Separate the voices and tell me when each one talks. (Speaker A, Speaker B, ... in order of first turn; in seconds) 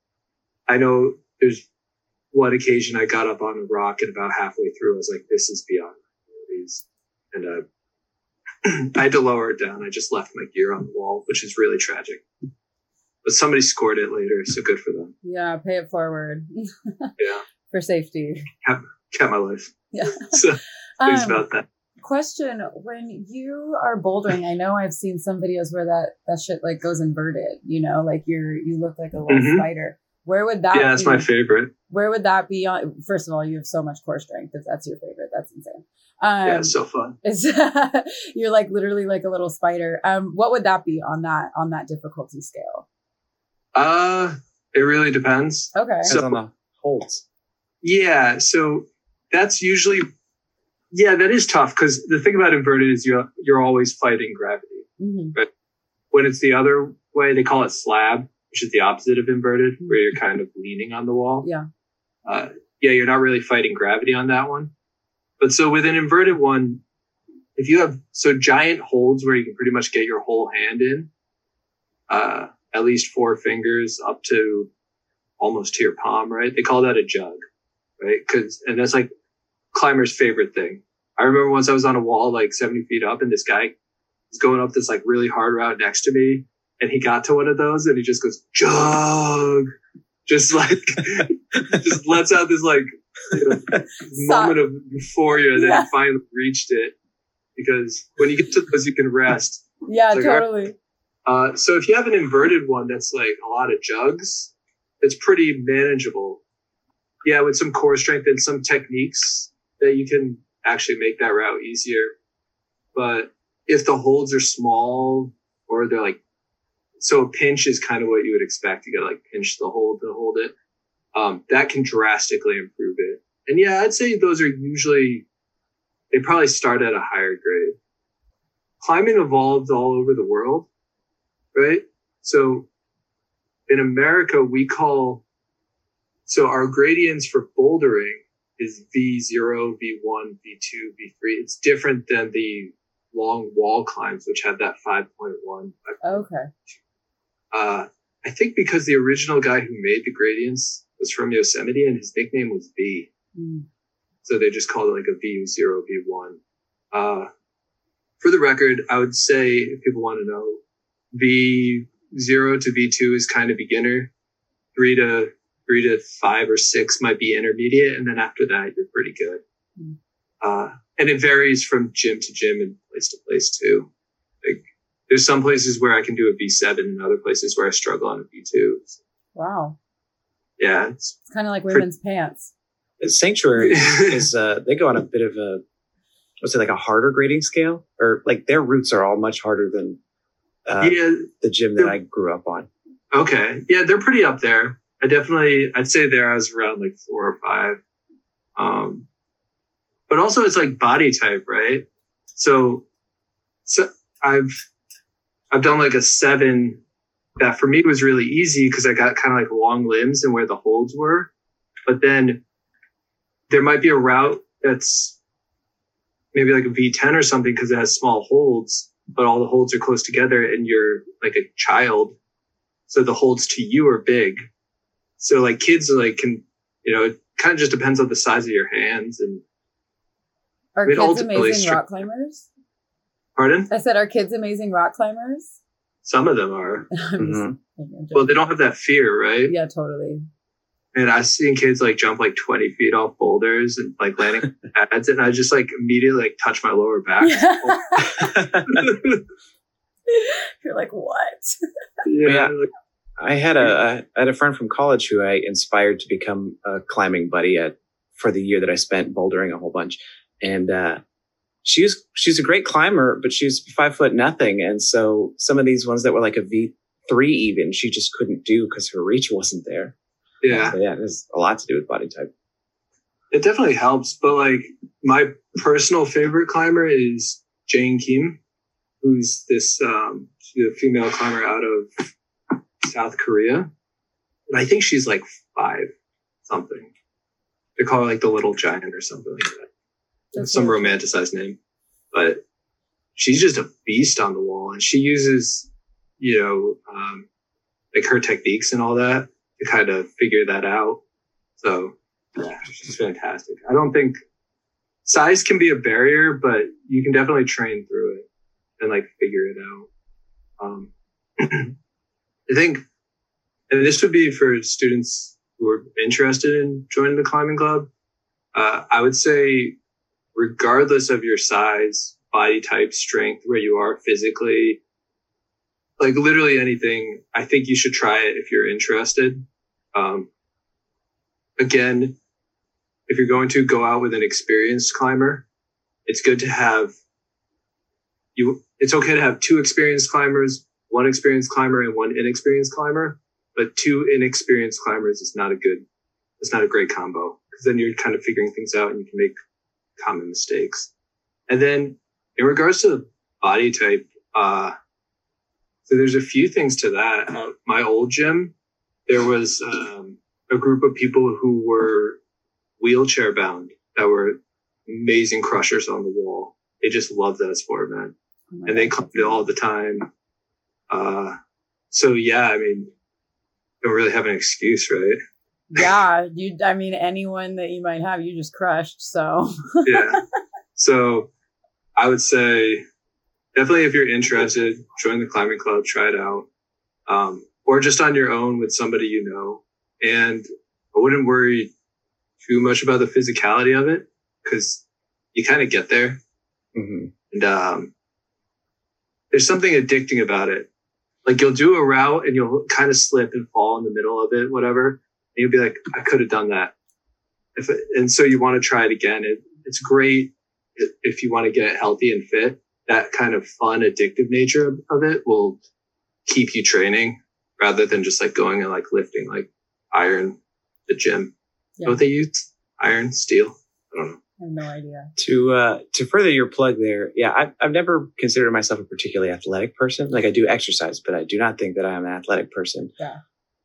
Speaker A: 0.7-1.6, 2.3-7.6, 8.6-12.2, 13.2-15.1, 17.2-17.4, 18.6-21.6, 29.3-29.7, 30.7-31.7, 36.4-37.2, 43.7-46.4, 47.8-50.0, 50.9-55.5, 56.1-61.5, 62.2-64.7, 65.4-66.8, 67.6-71.1, 72.1-74.7, 75.4-77.4, 78.0-79.1, 79.7-83.7, 84.3-89.7, 90.2-96.9, 97.5-100.5, 101.2-106.4, 107.2-112.1, 112.9-116.2, 117.0-120.5, 121.1-125.2, 126.1-127.8, 128.8-130.7, 131.5-132.7, 133.7-135.2, 136.3-146.2, 147.5-153.1, 154.2-156.4, 156.9-157.3, 158.2-160.6, 161.1-164.1, 164.7-169.4, 170.4-173.9, 174.4-179.0, 180.6-181.2, 183.7-184.3, 190.8-191.9, 193.1-197.8, 198.6-199.1, 200.1-202.8, 203.7-204.6, 205.5-206.8, 207.4-211.3, 211.9-212.4, 213.5-215.2, 216.3-222.1, 222.9-224.4, 225.2-229.4, 230.8-231.8, 233.3-233.7, 236.0-236.9, 238.1-239.5, 240.9-248.1, 248.6-249.2, 252.1-252.7, 270.4-270.8, 273.3-278.4, 279.0-282.0, 282.8-283.7, 284.5-285.9, 286.5-286.9, 287.8-289.7, 290.4-291.6, 292.1-292.4, 293.2-295.7, 296.2-297.2, 297.9-301.0, 301.6-304.2, 305.1-308.2, 308.8-309.9, 310.6-311.7, 312.5-312.8, 313.7-317.9, 318.5-319.8, 320.3-324.8, 326.0-330.3, 331.6-332.1, 333.1-335.4, 336.1-336.9, 338.4-345.8, 346.4-349.3, 350.0-350.9, 351.5-354.7, 355.9-358.5, 359.1-362.2, 362.8-368.1, 368.7-370.1, 370.9-371.3, 371.9-372.9, 373.8-375.2, 379.8-380.2, 380.8-381.3, 382.0-382.8, 383.5-386.4, 387.1-391.7, 392.4-394.8, 395.3-396.2, 397.3-397.9, 399.3-400.7, 401.2-406.7, 407.6-415.6, 416.3-421.3, 421.8-424.2
Speaker B: 15.2-17.1, 17.7-18.5, 19.9-20.4, 21.0-21.4, 22.0-31.2, 31.9-42.8, 45.7-46.1, 55.0-55.3, 94.1-94.6, 95.6-95.9, 99.8-100.7, 146.0-146.5, 153.3-153.7, 179.3-179.8, 181.3-182.5, 230.8-232.5, 233.7-235.6, 236.9-238.4, 239.5-240.2, 247.2-248.3, 250.1-251.6, 290.3-290.9, 368.5-369.4, 375.7-380.2, 424.4-425.1
Speaker C: 46.0-47.2, 183.0-185.6, 186.4-190.0, 190.7-192.7, 237.2-237.6, 248.2-248.8, 252.2-252.5, 253.2-261.0, 261.6-269.9, 270.7-272.3, 396.7-397.1, 425.2-432.9